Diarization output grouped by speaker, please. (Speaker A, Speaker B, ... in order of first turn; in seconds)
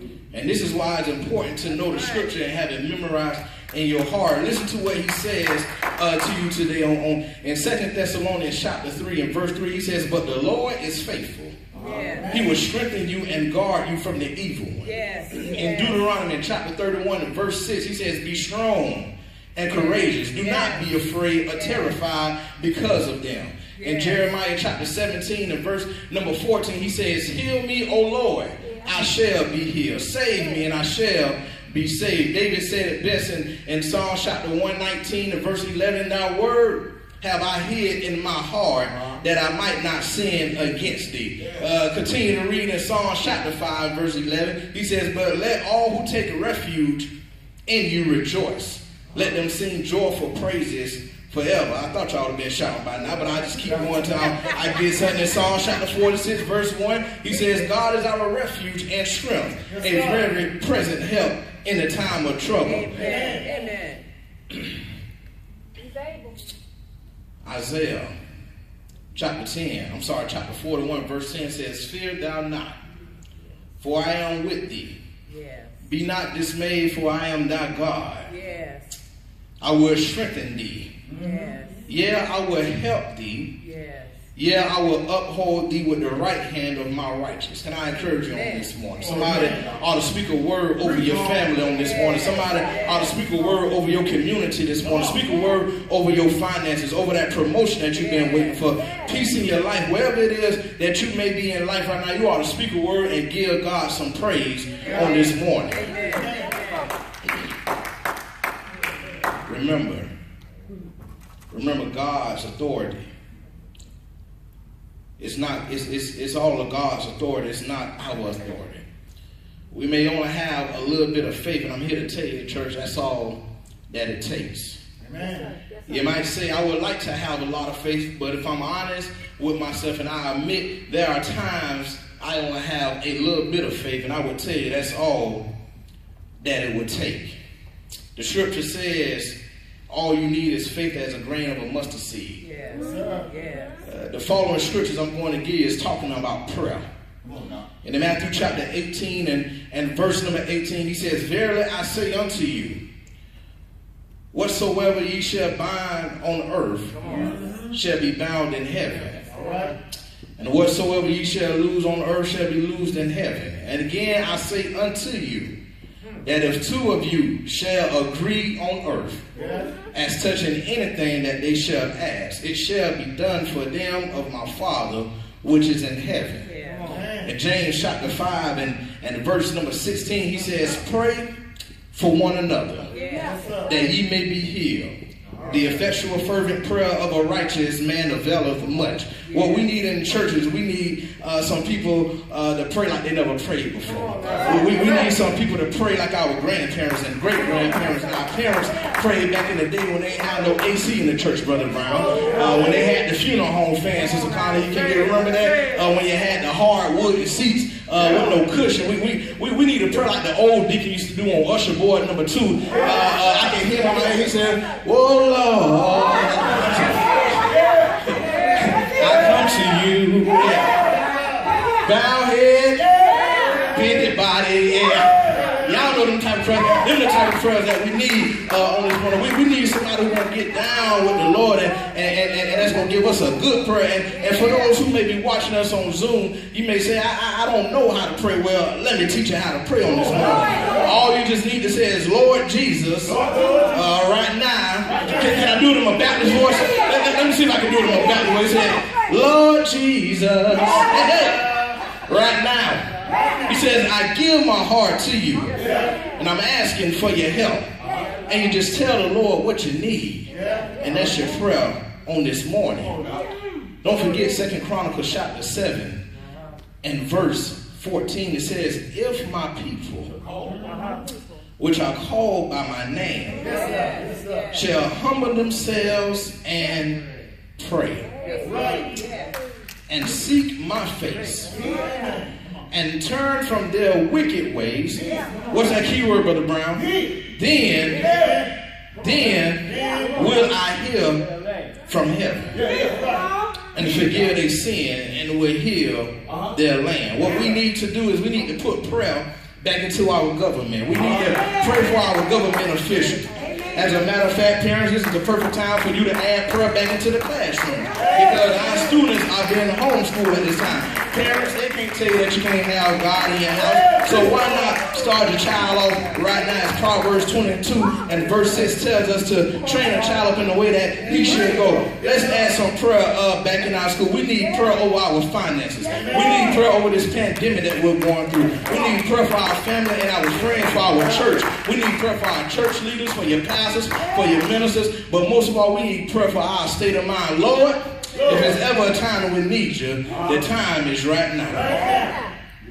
Speaker A: 0.3-11.6, 12.3-47.1, 47.7-63.0, 67.4-68.1, 69.1-72.8, 73.8-75.0, 75.8-78.3, 79.6-80.9, 81.9-83.5, 84.3-106.0, 109.5-110.1, 111.5-113.1, 115.2-118.8, 119.7-124.8, 125.8-135.4, 136.4-137.4, 138.1-139.4, 139.9-142.4, 143.8-146.8, 147.8-152.8, 154.3-159.2, 160.4-165.6, 166.2-169.2, 169.9-176.5, 177.2-181.3, 181.9-182.9, 183.7-220.9, 221.8-252.9, 253.4-257.7, 258.2-263.0, 263.8-266.0, 266.8-270.1, 271.6-273.6, 274.5-277.0, 277.6-278.1, 279.9-281.6, 282.7-288.2, 289.0-291.2, 291.9-292.7, 293.7-341.8
Speaker B: 1.8-2.3, 11.7-12.3, 14.8-16.0, 19.7-20.9, 21.5-21.8, 23.8-24.2, 62.6-64.0, 75.3-75.8, 78.3-79.0, 81.1-81.8, 83.6-84.2, 88.3-88.7, 91.6-93.1, 105.7-106.8, 142.4-143.8, 176.4-176.9, 182.9-183.4, 189.3-189.6, 273.4-274.6, 278.2-279.3
Speaker C: 11.7-12.6, 59.7-60.3, 62.9-63.5, 81.1-81.5, 89.0-89.7, 104.8-105.2, 105.9-106.7, 125.0-125.6, 142.8-143.2, 147.2-147.6, 159.3-159.8, 169.3-169.7, 176.8-177.3, 183.1-183.7, 243.2-243.8, 255.5-256.0, 260.3-260.9, 270.3-271.0, 273.4-274.5, 278.4-279.0, 281.5-282.3, 287.9-288.5, 289.6-290.2, 292.5-293.3, 338.2-338.5, 341.6-342.2